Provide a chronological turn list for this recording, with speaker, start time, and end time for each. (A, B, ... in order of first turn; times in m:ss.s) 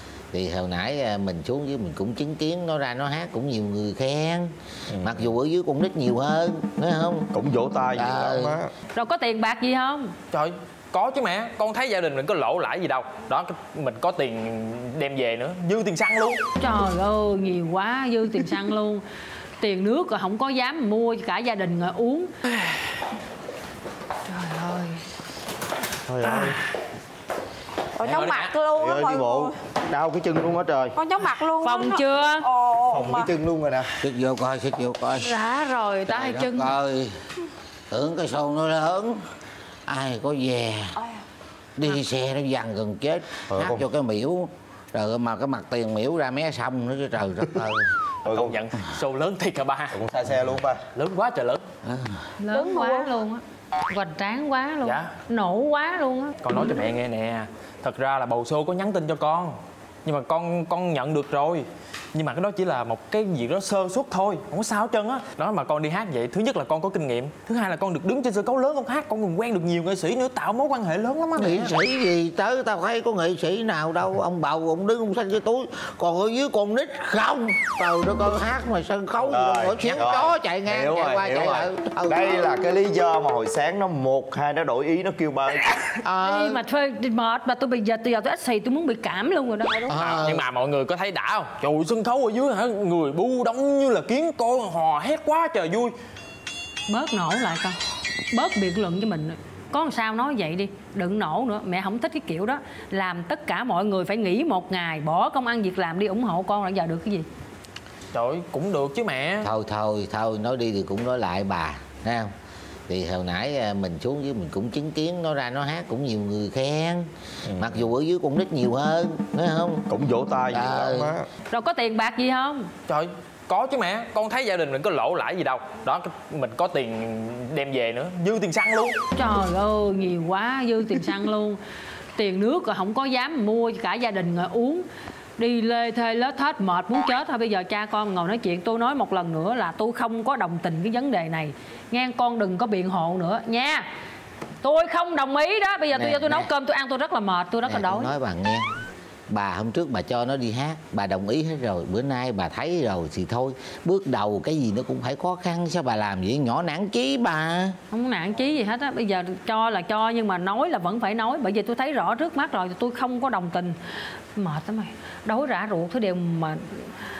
0:00.3-0:07.3 A
0:05.0-0:05.2 B
0:07.3-0:08.7 B
0:08.0-0:08.6 A
0:09.0-0:10.1 C
0:10.3-0:16.4 D
0:16.6-0:19.0 C
0:19.6-0:22.3 C
0:24.3-0:25.0 C
0:26.0-0:26.6 B
0:28.0-0:29.5 E
0:28.0-0:28.5 D
0:28.8-0:31.0 B
0:31.0-0:33.3 E
0:31.6-0:32.5 C
0:32.9-0:33.9 B
0:34.0-0:35.4 A
0:35.2-0:36.8 C
0:36.1-0:37.2 A
0:37.9-0:39.2 A
0:39.9-0:41.0 A
0:41.8-0:47.9 A
0:43.5-0:43.8 B
0:48.2-0:50.0 D
0:48.2-0:48.6 B
0:49.9-0:50.8 B
0:51.0-0:51.6 D
0:51.8-0:52.2 A
0:52.4-0:56.4 C
0:52.5-0:53.1 E
0:54.8-0:55.1 D
0:56.4-1:11.8 D
1:11.4-1:22.5 A
1:19.2-1:25.7 B
1:26.0-1:26.6 A
1:26.2-1:29.9 C
1:29.9-1:30.4 A
1:29.9-1:36.0 D
1:36.9-1:37.8 C
1:38.3-1:47.2 C
1:48.1-1:49.5 D
1:49.4-1:52.3 A
1:52.9-1:59.9 A
1:59.9-2:01.3 B
2:00.5-2:01.1 A
2:01.5-2:02.7 C
2:02.9-2:09.0 D
2:09.2-2:11.6 C
2:12.2-2:14.8 C
2:15.4-2:23.8 C
2:24.6-2:28.1 C
2:25.9-2:26.5 A
2:27.7-2:28.7 A
2:29.3-2:37.8 A
2:37.9-2:43.8 C
2:44.4-2:46.8 C